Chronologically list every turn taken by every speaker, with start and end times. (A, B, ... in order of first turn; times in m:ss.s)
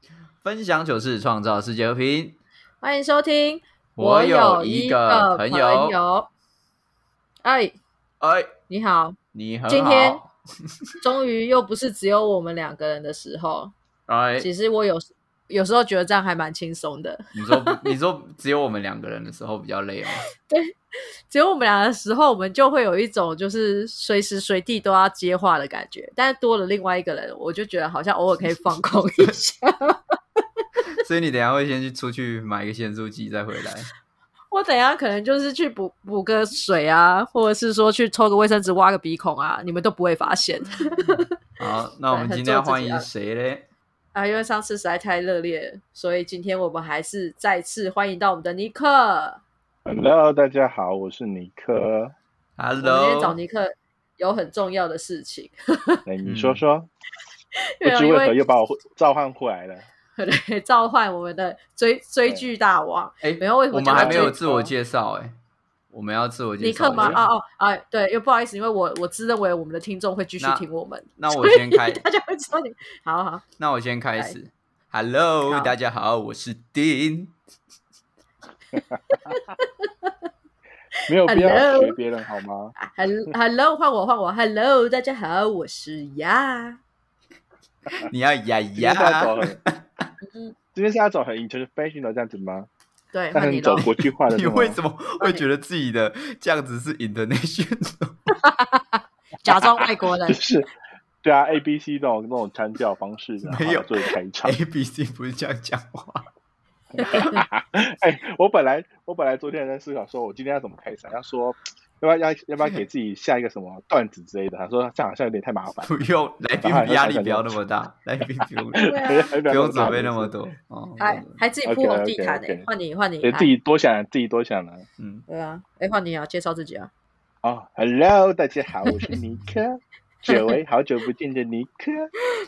0:00.4-0:02.4 A
0:02.8-0:06.3 B
0:04.0-0:06.0 A
0:07.4-0:07.8 B
0:08.2-0:08.5 A
0:08.7-0:09.2 B
0:09.3-0:10.3 A
0:09.7-0:10.2 B
0:11.0-0:13.7 B
0:14.1-0:14.5 A
0:14.4-0:18.0 B
0:17.4-0:20.2 A
0:20.4-0:20.7 B
0:21.3-0:30.2 B
0:31.0-0:33.9 A
0:34.5-0:41.3 B
0:41.6-0:43.7 A
0:42.1-0:43.1 B
0:44.1-0:49.4 B
0:49.8-0:52.1 C
0:52.6-0:53.4 A
0:52.8-0:56.0 B
0:56.1-0:56.9 C
0:56.3-0:56.6 A
0:57.8-0:58.4 B
0:57.8-0:59.8 C
1:00.2-1:04.4 B
1:03.2-1:05.4 A
1:03.9-1:04.7 C
1:05.9-1:07.2 A
1:06.6-1:13.4 B
1:06.9-1:07.2 C
1:10.4-1:10.6 A
1:11.2-1:12.0 A
1:13.6-1:17.3 A
1:15.4-1:15.7 B
1:18.8-1:19.0 C
1:19.1-1:20.1 B
1:21.1-1:22.7 C
1:21.2-1:22.0 B
1:22.8-1:26.8 B
1:28.0-1:29.8 A
1:28.8-1:29.6 C
1:30.2-1:30.6 B
1:30.8-1:32.7 C
1:33.1-1:33.9 B
1:33.3-1:34.8 C
1:34.3-1:38.2 A
1:38.4-1:40.4 B
1:40.3-1:40.7 C
1:41.2-1:44.6 C
1:43.4-1:46.3 A
1:47.0-1:47.5 B
1:47.0-1:55.9 C
1:55.8-1:58.9 A
1:56.6-1:57.6 C
1:58.8-2:00.3 C
1:58.8-1:59.9 B
1:59.4-2:01.4 A
2:01.0-2:03.5 B
2:01.6-2:02.7 C
2:03.2-2:04.8 C
2:05.0-2:05.2 A
2:05.3-2:06.9 B
2:07.4-2:12.1 C
2:10.3-2:10.6 B